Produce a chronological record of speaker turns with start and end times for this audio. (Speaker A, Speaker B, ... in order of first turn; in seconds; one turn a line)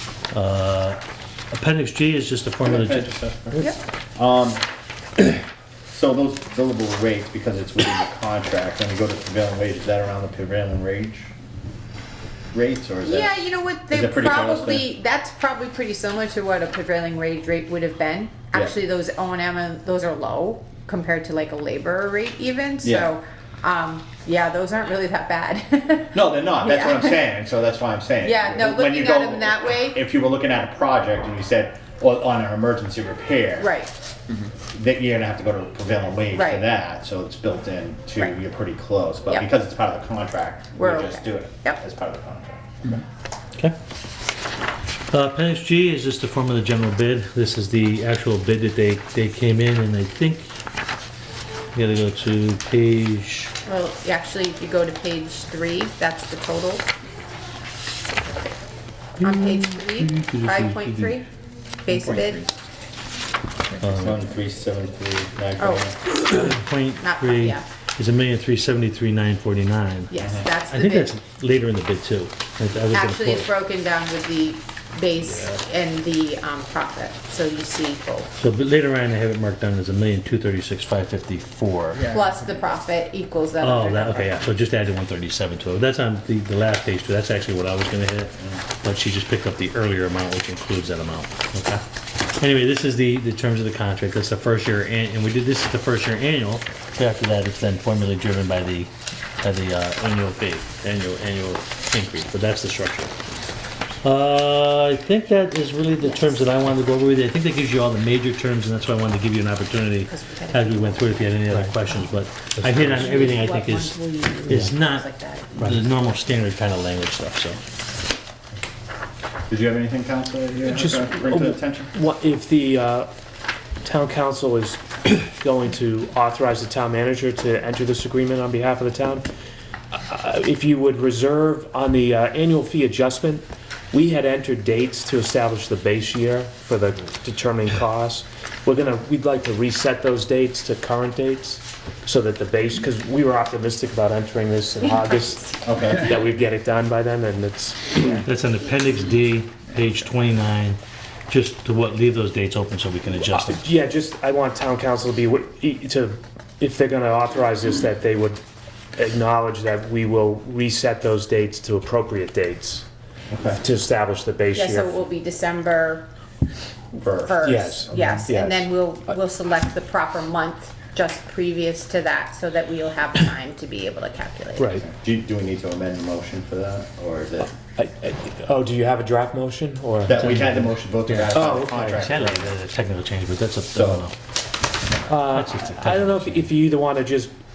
Speaker A: 0.3-1.0
Speaker A: 1.5-3.1
Speaker B: 2.6-4.6
Speaker B: 5.9-11.3
Speaker B: 12.5-14.8
Speaker C: 13.0-27.2
Speaker B: 22.8-23.1
Speaker B: 26.1-33.7
Speaker C: 28.2-30.0
Speaker C: 33.6-33.9
Speaker B: 34.5-42.9
Speaker C: 36.3-36.6
Speaker C: 40.8-41.8
Speaker A: 45.1-50.5
Speaker A: 51.7-53.5
Speaker C: 53.6-56.9
Speaker C: 59.2-61.3
Speaker A: 59.2-61.1
Speaker C: 61.8-62.5
Speaker A: 63.8-64.2
Speaker B: 63.9-66.0
Speaker C: 65.6-65.9
Speaker A: 66.1-73.5
Speaker C: 67.0-67.6
Speaker C: 70.1-71.1
Speaker B: 70.2-70.5
Speaker C: 72.9-78.3
Speaker A: 78.4-82.0
Speaker C: 82.1-84.4
Speaker A: 83.6-103.1
Speaker A: 104.0-117.6
Speaker C: 106.0-106.4
Speaker C: 110.0-111.3
Speaker C: 112.8-115.6
Speaker B: 119.5-121.9
Speaker D: 120.6-123.1
Speaker D: 123.8-129.2
Speaker D: 129.9-148.2
Speaker C: 144.8-145.5
Speaker B: 145.7-146.0
Speaker A: 148.2-150.8
Speaker A: 151.3-153.6
Speaker D: 153.2-158.4
Speaker D: 158.9-162.8
Speaker B: 163.3-163.6
Speaker D: 163.6-165.0
Speaker C: 164.5-166.1
Speaker B: 167.0-167.6
Speaker C: 167.2-174.8
Speaker D: 167.4-168.7
Speaker D: 174.6-174.8
Speaker B: 174.8-177.5
Speaker D: 177.8-180.7
Speaker B: 180.1-182.5
Speaker D: 181.3-182.0
Speaker A: 181.9-184.1
Speaker B: 183.7-184.1
Speaker D: 185.1-187.3
Speaker A: 185.2-186.5